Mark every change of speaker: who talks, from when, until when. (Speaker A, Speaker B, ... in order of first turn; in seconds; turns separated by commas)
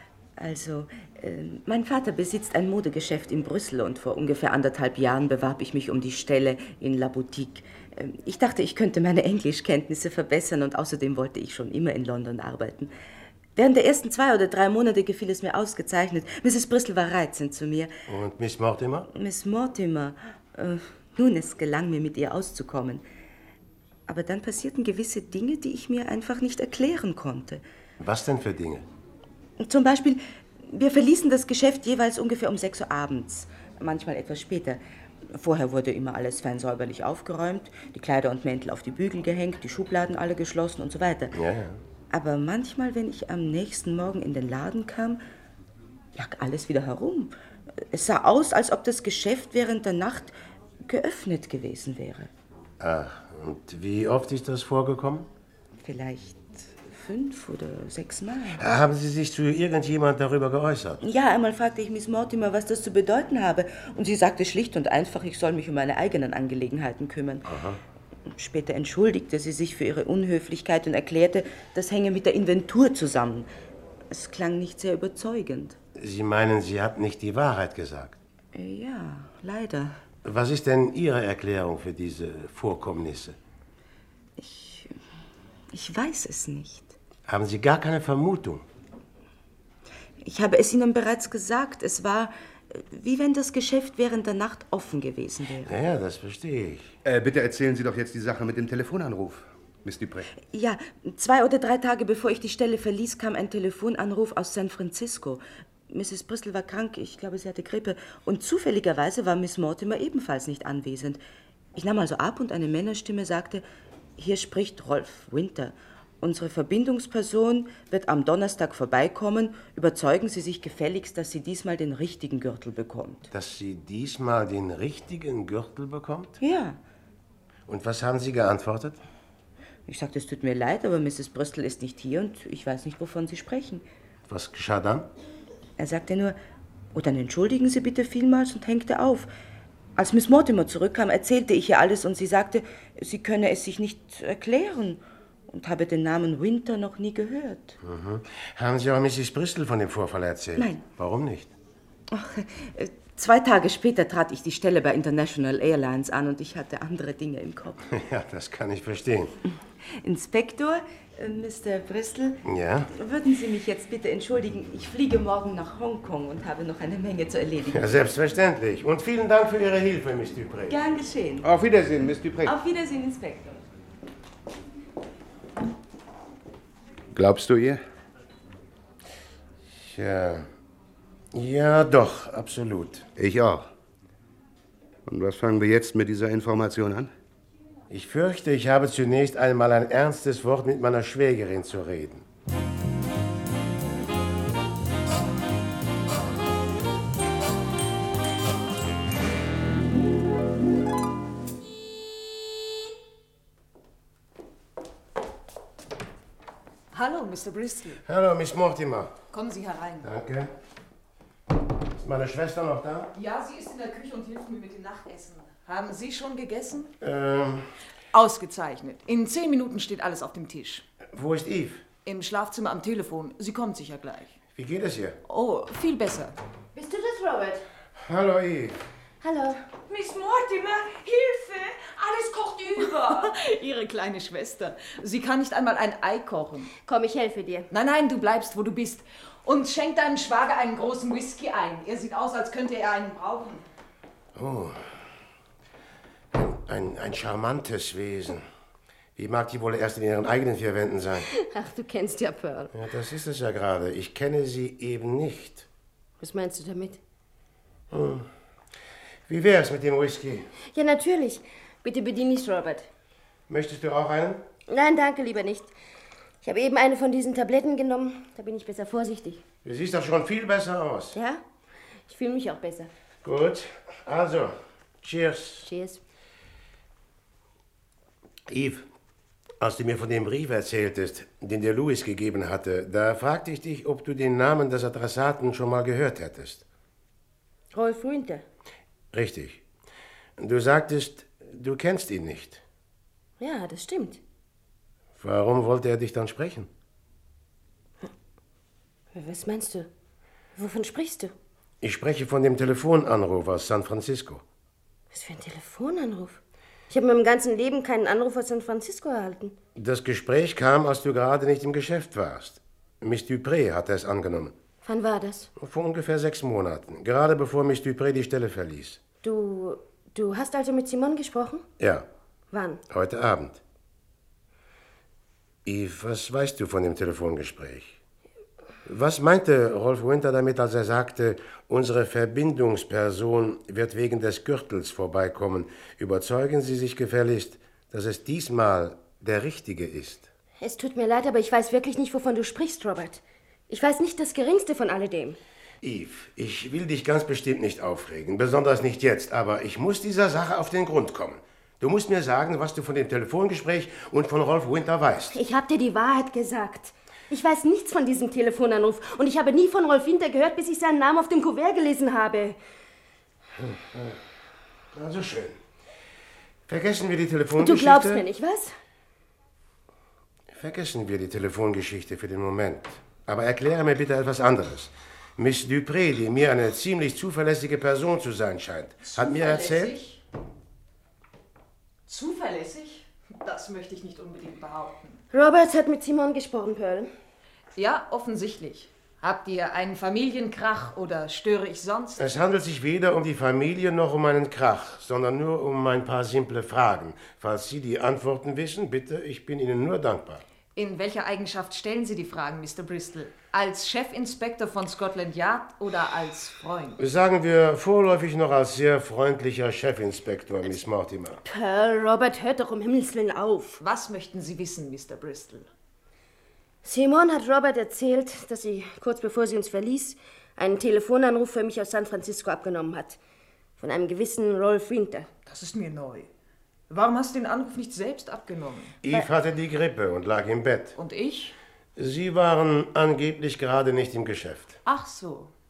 Speaker A: 0.4-12.9, Speaker A: 13.6-17.9, Speaker B: 18.1-19.1, Speaker A: 19.1-23.0, Speaker A: 24.1-27.6, Speaker B: 28.0-28.9, Speaker A: 29.6-41.4, Speaker B: 41.3-41.8, Speaker A: 42.1-45.2, Speaker A: 46.1-52.3, Speaker B: 52.8-55.3, Speaker A: 55.8-58.6, Speaker B: 58.6-61.0, Speaker A: 61.0-67.5, Speaker B: 67.5-67.8, Speaker A: 68.3-73.5, Speaker A: 74.1-75.8, Speaker B: 76.0-78.2, Speaker A: 78.5-80.0, Speaker B: 80.2-83.4, Speaker A: 84.4-85.0, Speaker A: 85.7-87.0, Speaker B: 87.3-88.7, Speaker A: 90.2-95.7, Speaker B: 95.7-96.9, Speaker C: 97.0-100.3, Speaker A: 100.5-111.2, Speaker A: 111.8-113.7, Speaker A: 114.2-123.3, Speaker B: 123.3-126.4, Speaker A: 126.4-126.8, Speaker B: 127.7-129.0, Speaker A: 129.9-133.8, Speaker B: 134.3-135.1, Speaker A: 135.8-136.4, Speaker A: 136.9-139.3, Speaker A: 140.0-147.8, Speaker B: 147.8-151.5, Speaker A: 150.6-150.8, Speaker A: 152.1-157.8, Speaker B: 157.9-159.4, Speaker A: 159.9-167.9, Speaker B: 162.4-162.9, Speaker B: 167.7-170.8, Speaker A: 170.7-171.5, Speaker C: 171.4-172.5, Speaker A: 172.4-173.6, Speaker C: 177.1-177.8, Speaker B: 179.7-180.5, Speaker B: 181.3-183.1, Speaker C: 183.2-183.7, Speaker C: 185.1-187.1, Speaker B: 187.9-192.2, Speaker D: 206.9-208.0, Speaker B: 208.1-209.2, Speaker D: 209.3-210.1, Speaker B: 210.0-210.5, Speaker B: 211.9-213.1, Speaker D: 213.1-216.9, Speaker B: 217.0-217.7, Speaker D: 218.1-220.8, Speaker B: 221.1-221.8, Speaker D: 222.0-224.4, Speaker B: 224.6-225.2, Speaker D: 225.3-226.4, Speaker E: 226.8-227.7, Speaker B: 228.0-228.8, Speaker E: 229.2-229.6, Speaker F: 229.9-233.2, Speaker D: 232.8-236.7, Speaker E: 236.8-237.7, Speaker D: 237.7-243.6, Speaker B: 244.4-244.8, Speaker B: 246.3-248.5, Speaker B: 249.2-251.3, Speaker E: 251.3-252.7, Speaker B: 252.7-255.7, Speaker E: 256.2-257.0, Speaker B: 257.9-258.3, Speaker B: 259.3-260.5, Speaker E: 260.7-262.9, Speaker B: 263.5-264.4, Speaker E: 264.7-265.7, Speaker E: 266.4-269.4, Speaker B: 269.6-271.2, Speaker E: 271.1-271.4, Speaker E: 272.1-272.9, Speaker B: 273.2-275.7, Speaker E: 275.6-276.0, Speaker B: 278.5-278.9, Speaker B: 279.6-286.6, Speaker E: 287.7-288.4, Speaker B: 289.1-289.6, Speaker B: 290.4-292.6, Speaker E: 293.4-294.2, Speaker B: 295.2-296.7, Speaker E: 299.1-299.9, Speaker E: 300.6-301.3, Speaker B: 301.8-304.4, Speaker E: 305.1-309.6, Speaker B: 309.8-314.6, Speaker E: 314.8-315.5, Speaker B: 315.6-319.0, Speaker E: 319.2-321.7, Speaker B: 321.8-322.1, Speaker E: 322.5-322.8, Speaker B: 322.9-323.6, Speaker B: 325.6-328.0, Speaker B: 328.9-340.3, Speaker E: 340.6-345.4, Speaker B: 345.8-355.4, Speaker E: 355.3-362.6, Speaker B: 363.6-364.2, Speaker B: 364.9-365.6, Speaker B: 366.7-368.2, Speaker E: 367.6-368.7, Speaker B: 370.5-379.9, Speaker D: 379.0-380.2, Speaker D: 382.1-385.2, Speaker E: 385.3-387.1, Speaker D: 387.8-392.3, Speaker B: 392.2-400.4, Speaker D: 400.8-407.0, Speaker B: 407.0-411.4, Speaker E: 411.4-413.8, Speaker D: 413.8-415.7, Speaker E: 416.8-423.2, Speaker E: 423.8-425.3, Speaker D: 425.5-426.3, Speaker D: 426.9-429.0, Speaker B: 429.0-431.0, Speaker D: 431.0-431.6, Speaker B: 432.0-434.8, Speaker D: 434.9-435.5